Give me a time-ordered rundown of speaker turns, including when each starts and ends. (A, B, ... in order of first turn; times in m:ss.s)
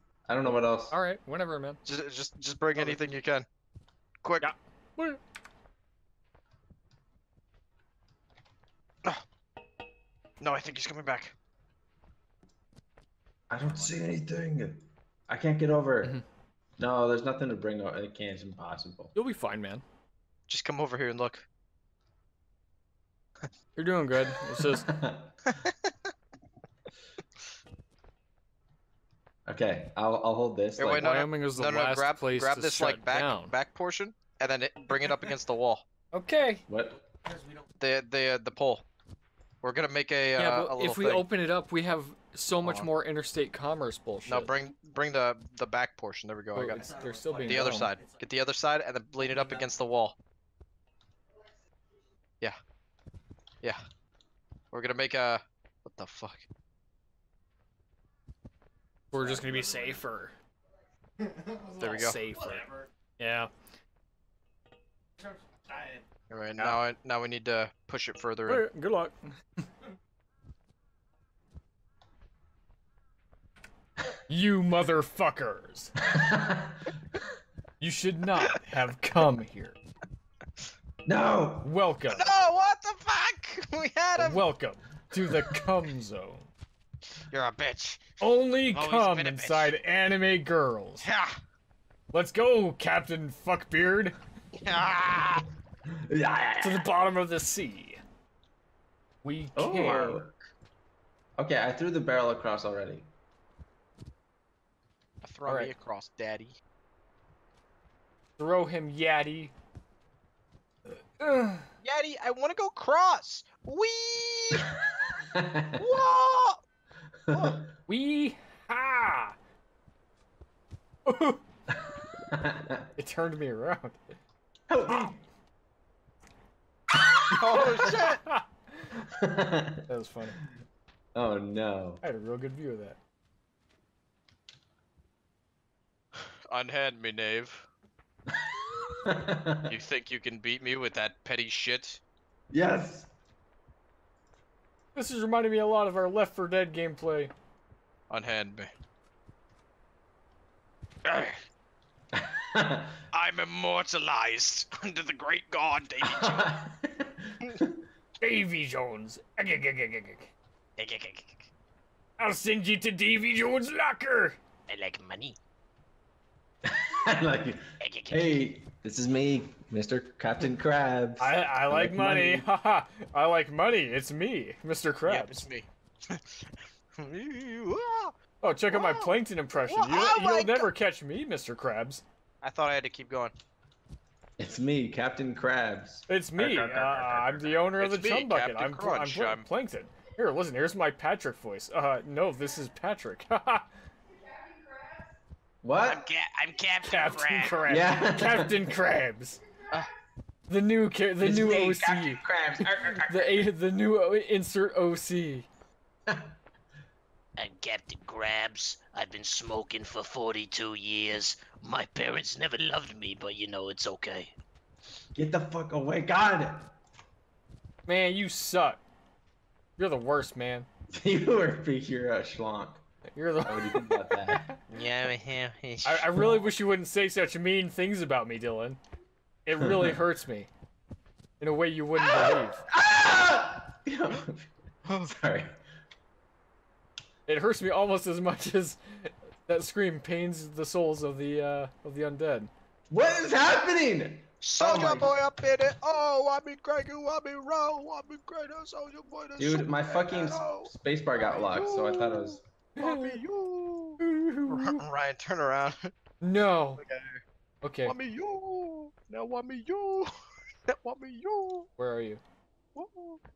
0:00.3-0:01.0 A
0:00.9-0:01.8 B
0:01.8-0:03.4 C
0:04.4-0:05.2 B
0:10.4-0:11.3 C
0:13.5-0:16.2 A
0:16.8-0:19.1 A
0:19.1-0:19.8 B
0:20.5-0:21.4 C
0:23.8-0:24.9 B
0:24.7-0:25.5 A
0:29.4-0:31.2 A
0:30.8-0:35.8 C
0:31.0-0:33.5 B
0:36.1-0:36.6 B
0:36.7-0:37.0 A
0:37.8-0:38.8 C
0:39.6-0:41.2 C
0:40.4-0:44.5 B
0:42.6-0:42.9 C
0:44.3-0:46.8 C
0:46.5-0:47.9 B
0:47.4-0:50.2 C
0:54.7-0:56.5 C
0:59.1-1:00.3 B
1:01.6-1:03.5 B
1:01.8-1:02.2 C
1:06.3-1:08.6 C
1:08.5-1:09.2 B
1:14.3-1:15.9 B
1:16.0-1:17.0 A
1:17.8-1:19.8 B
1:21.0-1:21.7 A
1:21.6-1:22.3 B
1:22.1-1:24.5 C
1:24.2-1:26.5 B
1:27.3-1:28.0 C
1:28.2-1:31.1 B
1:28.7-1:29.7 C
1:31.0-1:31.3 C
1:32.1-1:34.1 B
1:34.6-1:35.4 C
1:36.0-1:36.9 A
1:36.6-1:38.0 B
1:39.2-1:40.2 B
1:39.5-1:40.4 A
1:41.4-1:43.1 A
1:45.2-1:46.6 C
1:45.4-1:45.7 B
1:48.4-1:49.5 B
1:51.2-1:51.6 B
1:51.8-1:54.7 C
1:55.1-1:55.8 A
1:55.8-1:56.6 C
1:57.3-1:57.6 A
1:57.3-1:57.6 C
1:57.9-1:59.4 B
2:01.0-2:01.4 B
2:01.7-2:02.9 A
2:03.0-2:04.0 B
2:04.7-2:05.2 A
2:07.3-2:07.6 A
2:07.4-2:08.2 C
2:07.5-2:08.4 B
2:09.1-2:09.9 A
2:09.9-2:10.4 B
2:11.1-2:12.0 A
2:12.0-2:13.0 B
2:16.5-2:17.6 C
2:18.3-2:19.7 A
2:19.7-2:22.0 C
2:22.5-2:23.1 A
2:24.9-2:27.3 B
2:28.1-2:28.7 C
2:31.0-2:31.4 C
2:32.1-2:33.0 A
2:33.1-2:36.5 C
2:36.0-2:37.8 A
2:38.2-2:40.3 B
2:40.8-2:41.3 D
2:42.2-2:44.4 B
2:44.7-2:45.4 D
2:46.6-2:52.5 A
2:47.8-2:48.3 D
2:51.2-2:55.5 B
2:55.0-2:56.4 C
2:57.0-2:58.1 C
2:58.4-3:02.0 B
2:58.7-3:00.7 C
3:02.4-3:03.3 C
3:04.4-3:06.1 A
3:06.1-3:13.6 B
3:06.5-3:09.4 C
3:15.6-3:16.0 A
3:15.8-3:17.5 C
3:16.1-3:17.4 D
3:16.8-3:19.4 B
3:17.6-3:18.6 A
3:20.5-3:25.5 B
3:21.2-3:23.5 A
3:26.1-3:26.3 A
3:27.4-3:34.3 D
3:35.1-3:36.7 A
3:37.8-3:38.8 B
3:39.8-3:40.7 B
3:40.9-3:42.8 A
3:43.1-3:44.6 B
3:43.4-3:44.5 A
3:44.7-3:46.1 C
3:45.8-3:48.8 B
3:49.4-3:50.5 B
3:49.6-3:50.0 A
3:51.4-3:52.6 B
3:52.0-3:54.5 A
3:55.0-3:55.6 A
3:57.3-4:02.5 B
4:02.9-4:05.2 A
4:04.4-4:15.9 C
4:09.4-4:12.4 A
4:12.8-4:13.2 B
4:14.0-4:14.8 B
4:16.2-4:16.8 B
4:16.8-4:17.2 C
4:17.6-4:18.0 B
4:17.8-4:20.1 C
4:20.7-4:21.7 C
4:21.8-4:22.2 B
4:22.7-4:23.2 C